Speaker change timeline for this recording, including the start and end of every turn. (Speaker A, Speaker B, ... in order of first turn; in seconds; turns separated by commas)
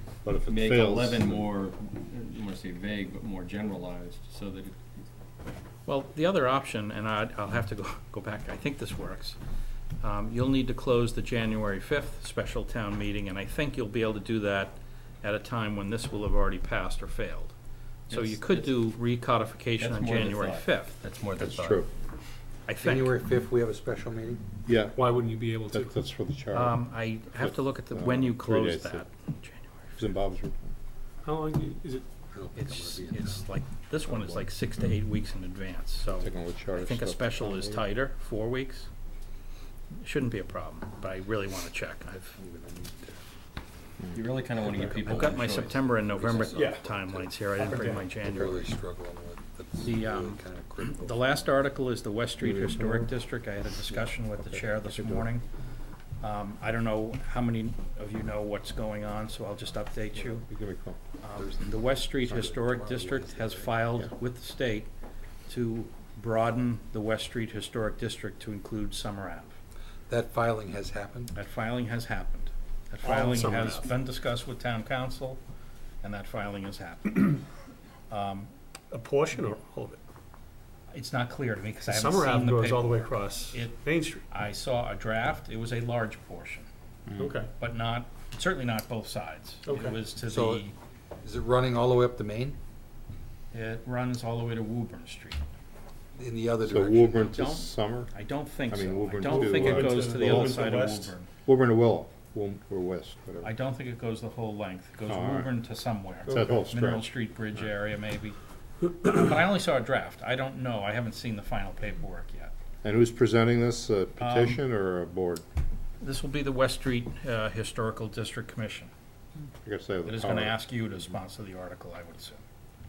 Speaker A: 0.2-1.5, Speaker B: 0.5-4.8, Speaker C: 5.9-9.4, Speaker C: 10.0-17.5, Speaker B: 18.1-18.8, Speaker C: 18.1-21.0, Speaker B: 19.8-21.8, Speaker A: 21.4-21.9, Speaker C: 22.7-23.2, Speaker D: 22.8-24.4, Speaker A: 24.7-25.0, Speaker E: 24.9-25.9, Speaker A: 25.7-26.8, Speaker C: 26.5-30.1, Speaker A: 27.4-29.1, Speaker A: 30.0-30.7, Speaker E: 31.2-32.1, Speaker D: 32.3-33.4, Speaker C: 32.5-38.9, Speaker A: 36.1-37.9, Speaker C: 40.0-42.4, Speaker D: 42.4-43.2, Speaker B: 44.1-46.6, Speaker C: 45.0-48.7, Speaker D: 46.3-51.4, Speaker E: 46.5-47.0, Speaker E: 47.6-48.1, Speaker C: 49.8-55.4, Speaker A: 52.4-53.1, Speaker A: 54.4-55.3, Speaker C: 56.2-60.5, Speaker A: 60.2-61.0, Speaker C: 61.2-64.9, Speaker D: 61.4-63.7, Speaker C: 65.5-69.5, Speaker D: 70.1-71.3, Speaker C: 71.3-75.4, Speaker E: 73.0-73.9, Speaker C: 76.0-77.4, Speaker C: 78.1-78.5, Speaker E: 78.9-80.0, Speaker C: 80.9-86.7, Speaker E: 81.8-84.2, Speaker E: 87.2-87.5, Speaker C: 87.6-90.7, Speaker E: 89.7-90.0, Speaker D: 90.3-90.7, Speaker D: 91.2-92.6, Speaker C: 93.5-95.4, Speaker D: 96.1-97.4, Speaker A: 96.7-98.1, Speaker C: 97.3-101.3, Speaker A: 98.7-100.6, Speaker E: 99.3-101.2, Speaker A: 101.5-103.5, Speaker C: 103.4-108.4, Speaker A: 105.1-105.5, Speaker A: 106.3-107.1, Speaker C: 109.0-112.5, Speaker A: 112.8-115.4, Speaker C: 114.2-114.6, Speaker C: 116.0-118.9, Speaker A: 119.6-120.6, Speaker C: 120.1-122.4